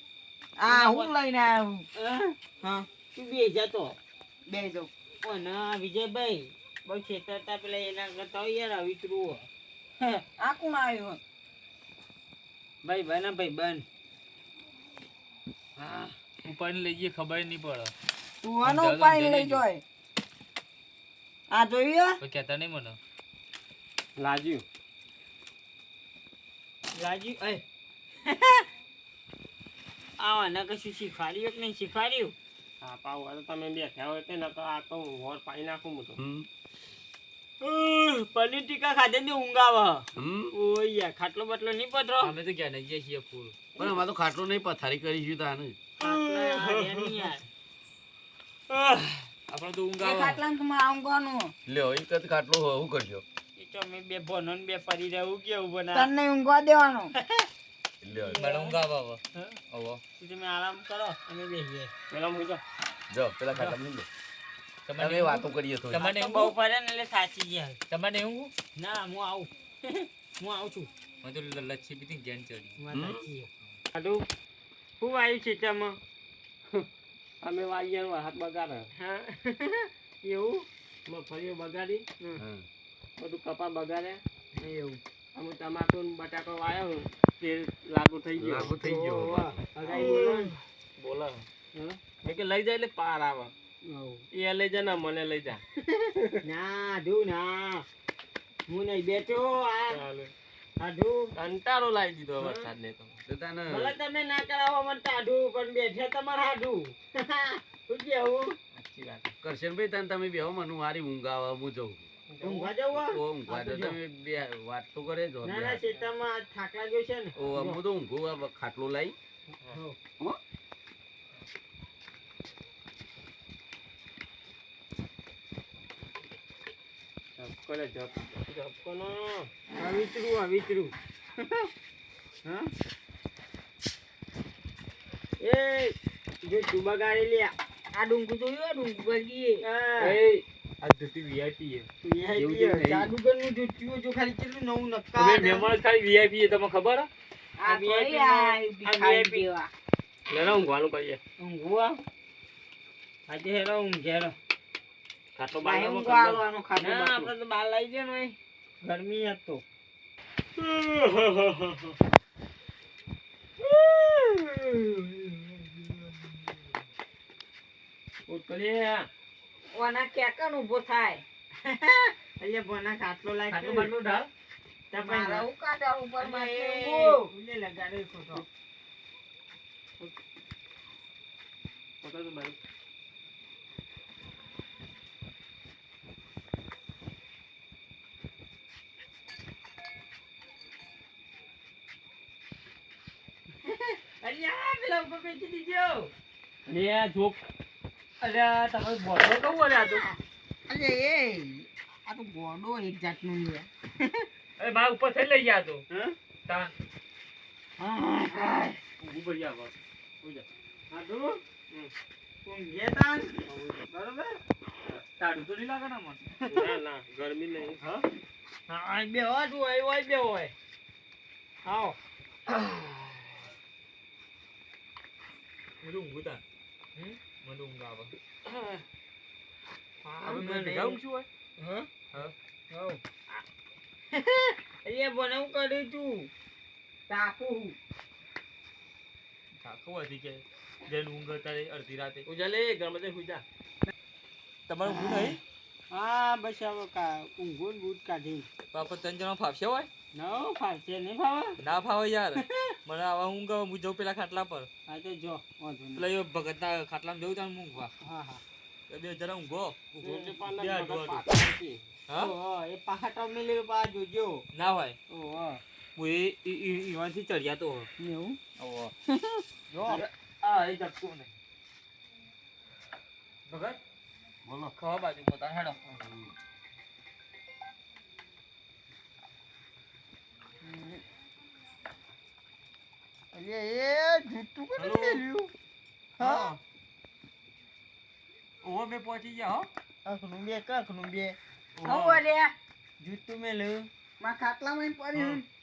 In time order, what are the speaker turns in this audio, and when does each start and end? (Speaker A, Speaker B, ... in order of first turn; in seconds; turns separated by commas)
Speaker A: 0.6-1.9, Speaker B: 0.7-1.1, Speaker B: 2.0-2.4, Speaker A: 2.6-2.9, Speaker B: 3.1-4.0, Speaker A: 4.5-4.9, Speaker B: 5.2-9.5, Speaker A: 10.4-11.2, Speaker B: 12.8-13.8, Speaker C: 16.4-17.9, Speaker A: 18.4-19.8, Speaker C: 18.6-19.6, Speaker A: 21.5-22.2, Speaker C: 22.2-23.0, Speaker D: 24.2-24.6, Speaker B: 27.0-27.6, Speaker B: 28.3-28.6, Speaker B: 30.2-32.4, Speaker D: 32.8-36.2, Speaker E: 36.2-36.5, Speaker B: 37.6-42.3, Speaker E: 40.2-40.5, Speaker C: 42.2-43.6, Speaker E: 43.8-45.8, Speaker B: 46.0-47.4, Speaker D: 46.0-47.3, Speaker C: 49.5-50.4, Speaker A: 50.0-51.5, Speaker E: 51.7-53.2, Speaker B: 53.6-56.1, Speaker A: 55.9-57.1, Speaker B: 57.1-57.5, Speaker E: 58.0-58.4, Speaker B: 58.1-58.7, Speaker C: 58.4-60.0, Speaker B: 60.2-61.9, Speaker D: 62.1-62.6, Speaker E: 63.1-64.1, Speaker C: 64.9-66.5, Speaker E: 65.0-66.0, Speaker B: 66.0-67.8, Speaker C: 67.9-68.5, Speaker B: 68.8-70.9, Speaker C: 71.2-72.8, Speaker B: 72.8-74.2, Speaker E: 72.9-73.3, Speaker B: 75.0-76.0, Speaker D: 77.4-78.9, Speaker B: 79.0-80.7, Speaker D: 81.1-82.0, Speaker E: 82.4-82.7, Speaker D: 83.2-84.2, Speaker B: 84.6-85.0, Speaker D: 85.3-88.8, Speaker E: 88.4-89.7, Speaker B: 88.8-90.5, Speaker D: 89.8-93.5, Speaker B: 93.8-94.2, Speaker D: 94.3-95.6, Speaker B: 96.4-97.9, Speaker B: 98.7-100.0, Speaker D: 99.9-100.3, Speaker B: 100.8-101.3, Speaker D: 101.3-103.2, Speaker B: 102.4-102.7, Speaker E: 103.3-104.0, Speaker B: 103.7-108.5, Speaker D: 108.8-109.3, Speaker E: 109.4-112.0, Speaker D: 112.3-112.7, Speaker B: 112.4-114.0, Speaker E: 112.9-115.8, Speaker B: 115.4-117.8, Speaker E: 117.4-119.2, Speaker B: 119.7-120.0, Speaker D: 127.4-129.5, Speaker B: 129.8-131.7, Speaker B: 135.4-137.5, Speaker A: 137.9-139.6, Speaker B: 139.6-140.2, Speaker C: 140.0-143.1, Speaker B: 142.0-145.7, Speaker C: 145.2-147.1, Speaker A: 147.6-149.7, Speaker B: 147.7-149.4, Speaker D: 150.3-151.2, Speaker B: 151.4-152.0, Speaker B: 153.3-154.3, Speaker D: 155.4-157.3, Speaker A: 155.6-158.3, Speaker B: 156.8-159.6, Speaker D: 160.6-161.9, Speaker B: 163.6-165.8, Speaker D: 168.3-169.1, Speaker A: 169.7-171.2, Speaker B: 171.6-173.9, Speaker C: 173.5-174.3, Speaker B: 174.9-175.5, Speaker A: 174.9-177.3, Speaker B: 176.2-178.4, Speaker D: 182.0-182.6, Speaker B: 194.2-196.1, Speaker A: 195.3-195.8, Speaker D: 196.7-197.4, Speaker C: 198.2-200.0, Speaker B: 200.7-204.1, Speaker C: 204.6-205.8, Speaker B: 205.9-206.2, Speaker B: 207.8-208.8, Speaker C: 209.0-209.7, Speaker B: 210.9-211.4, Speaker B: 212.4-213.4, Speaker D: 213.5-213.8, Speaker B: 213.9-214.3, Speaker C: 214.9-216.4, Speaker D: 216.5-217.8, Speaker B: 218.7-220.5, Speaker B: 221.7-222.0, Speaker C: 222.5-223.1, Speaker C: 225.8-226.4, Speaker C: 227.4-228.1, Speaker C: 230.0-231.3, Speaker B: 230.2-231.0, Speaker B: 231.6-231.9, Speaker B: 232.7-233.0, Speaker B: 234.1-236.3, Speaker B: 237.1-237.8, Speaker C: 239.6-242.3, Speaker D: 242.3-243.4, Speaker C: 244.7-245.4, Speaker B: 245.9-248.5, Speaker C: 248.7-249.9, Speaker B: 250.1-251.6, Speaker C: 251.6-254.7, Speaker B: 254.9-256.1, Speaker C: 256.0-257.9, Speaker B: 258.0-258.4, Speaker C: 258.9-259.8, Speaker D: 259.9-261.8, Speaker B: 260.0-260.4, Speaker C: 260.6-261.3, Speaker B: 262.1-264.4, Speaker C: 264.5-265.0, Speaker B: 265.1-265.6, Speaker C: 266.0-267.9, Speaker B: 268.0-268.4, Speaker C: 268.6-268.9, Speaker B: 269.7-270.0, Speaker C: 269.9-271.3, Speaker C: 273.5-273.8, Speaker E: 274.5-274.7, Speaker C: 274.8-275.8, Speaker B: 280.6-281.0, Speaker B: 283.3-285.5, Speaker D: 284.8-285.2, Speaker B: 286.2-286.6, Speaker C: 288.6-289.7, Speaker B: 290.1-291.4, Speaker D: 291.8-292.2, Speaker A: 291.8-292.5, Speaker B: 293.0-293.9, Speaker A: 294.2-295.4, Speaker D: 295.1-295.4